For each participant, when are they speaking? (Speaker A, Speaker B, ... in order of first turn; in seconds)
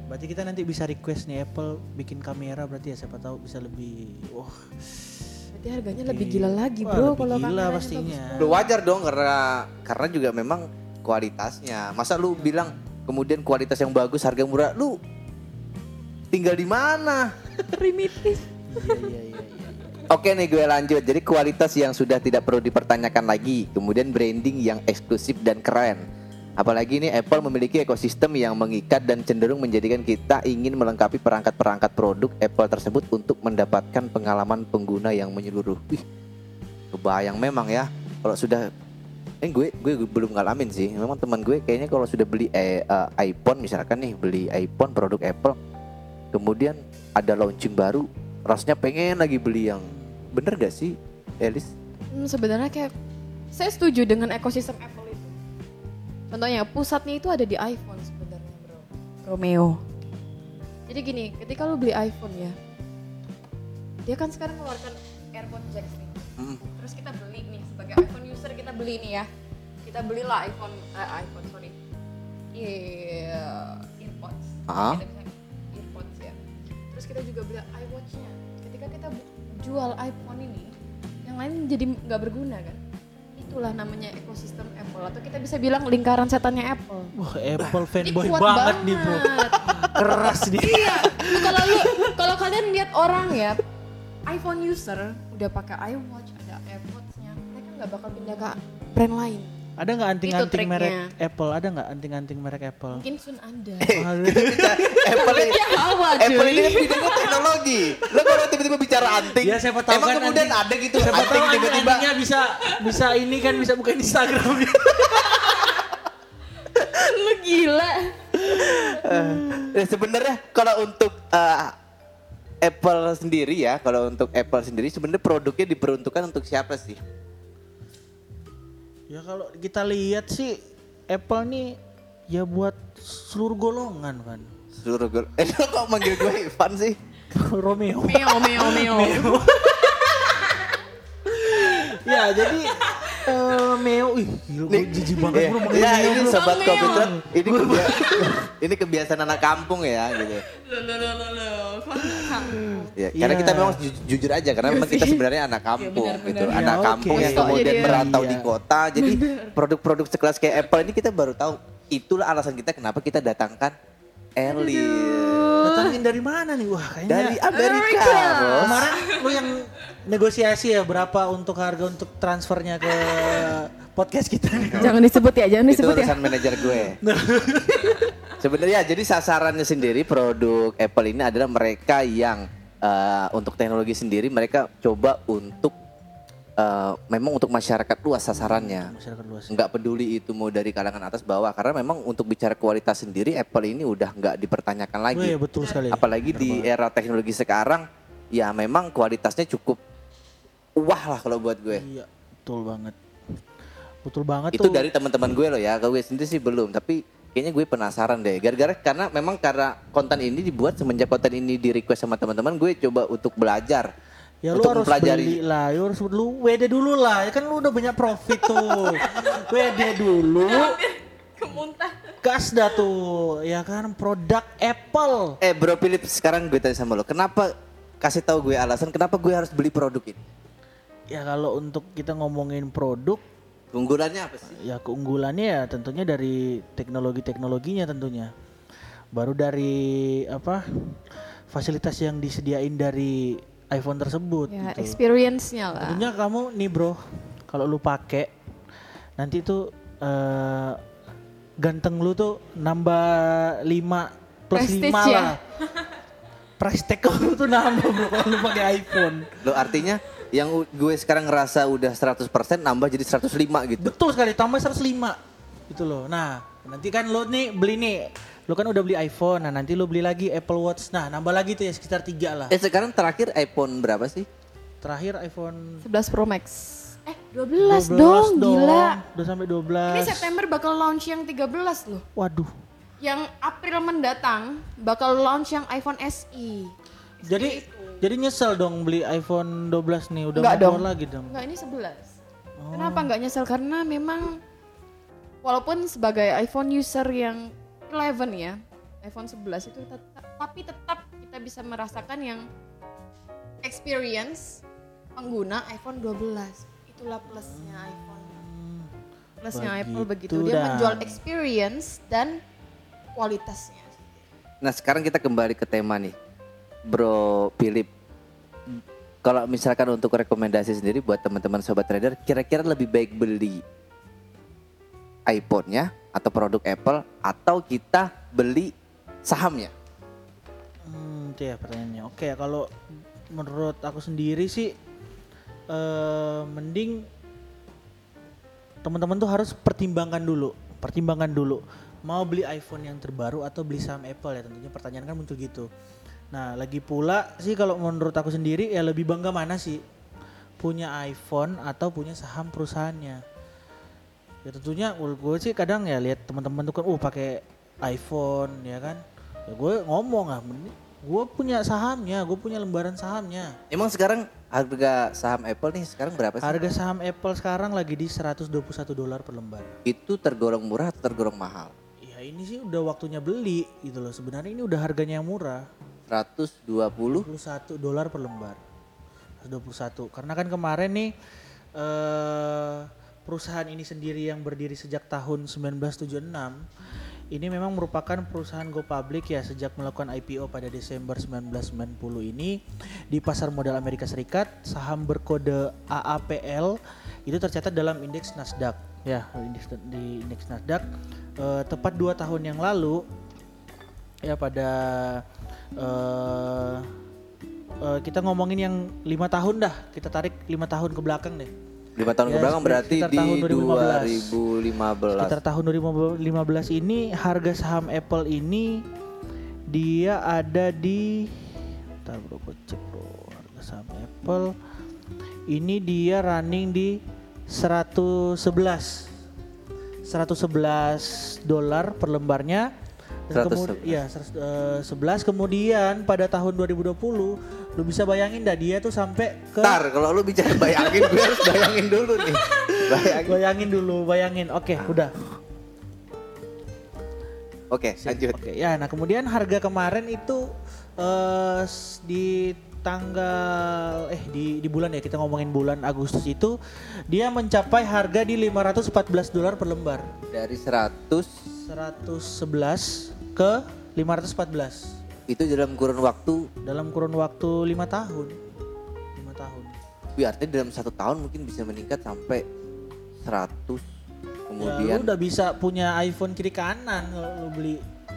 Speaker A: 0.1-5.4, 6.0-8.6, 12.3-12.8, 18.7-20.0, 87.2-89.3, 89.8-92.1, 99.8-103.0, 103.9-105.1, 109.4-115.8, 118.3-119.8, 129.1-131.8, 132.3-134.5, 137.3-140.0, 141.3-148.3, 152.1-153.8, 156.5-158.5, 165.6-167.4, 168.6-175.0, 176.7-178.1, 188.3-189.6, 195.1-196.7, 201.7-203.0, 204.1-204.9, 214.4-220.8, 222.2-225.4, 231.1-233.2, 234.5-238.3, 239.1-245.0, 245.8-248.3, 249.2-250.8, 251.6-255.4, 256.6-259.4, 263.8-265.2, 265.7-272.6, 274.8-275.9, 277.6-280.3, 282.2-282.5, 287.2-291.3, 292.6-293.1, 307.3-308.9, 309.5-311.2, 330.9-332.7, 333.3-334.7, 335.7-337.1, 338.8-345.7, 346.3-349.8, 350.6-353.2, 354.4-363.6, 366.4-369.8, 372.0-375.7, 377.1-378.6, 379.4-381.1, 381.8-386.7, 387.3-400.9, 401.4-403.0, 404.2-405.2, 405.8-406.9, 407.8-411.5, 412.3-414.4, 415.1-418.9, 419.7-424.5, 425.5-429.1, 430.1-432.7, 433.3-439.8, 440.5-441.5, 442.4-445.1, 448.0-456.6, 457.1-460.1, 461.7-464.9, 466.6-468.4, 469.2-469.7, 474.6-477.8
Speaker B: 5.5-8.7, 17.6-19.1, 52.1-52.9, 53.5-55.4, 56.3-59.8, 60.9-62.6, 64.0-69.3, 69.8-71.8, 72.5-76.4, 76.9-80.7, 81.2-82.8, 83.4-87.1, 88.0-93.6, 94.3-99.6, 100.2-101.1, 102.9-104.0, 105.1-108.4, 115.1-115.9, 116.6-119.0, 138.1-140.8, 141.7-143.6, 145.1-147.2, 150.2-152.9, 154.6-155.2, 155.8-158.1, 159.0-159.6, 164.5-166.0, 167.5-169.5, 173.1-173.5, 174.8-176.8, 218.4-222.2, 244.5-246.1, 254.5-255.9, 275.9-279.0, 279.9-282.1, 283.0-288.0, 290.4-292.2, 292.7-294.4, 295.4-302.4, 303.6-304.6, 305.2-308.4, 309.4-312.4, 313.1-314.1
Speaker C: 8.4-15.0, 16.3-17.3, 20.1-26.0, 26.6-36.0, 36.9-38.7, 39.4-45.6, 46.3-51.7, 74.7-75.0, 89.6-89.8, 103.8-112.1, 119.0-121.8, 122.6-127.0, 134.8-137.0, 144.7-150.4, 153.0-163.8, 164.4-165.6, 167.1-168.9, 174.6-174.9, 175.7-177.0, 178.4-185.8, 186.6-188.9, 189.5-195.4, 195.9-199.8, 200.8-201.8, 204.5-213.9, 214.5-215.4, 225.4-230.2, 233.7-234.6, 259.4-263.9, 272.5-274.3, 314.6-316.1, 316.9-317.9, 319.2-323.6, 325.3-328.7, 329.3-329.7, 363.7-366.6, 369.9-371.7, 376.1-377.3, 412.0-415.4, 433.3-434.0, 439.6-443.4, 447.7-448.4, 460.3-461.3, 465.3-466.5, 470.2-472.4, 473.2-473.8, 474.5-475.1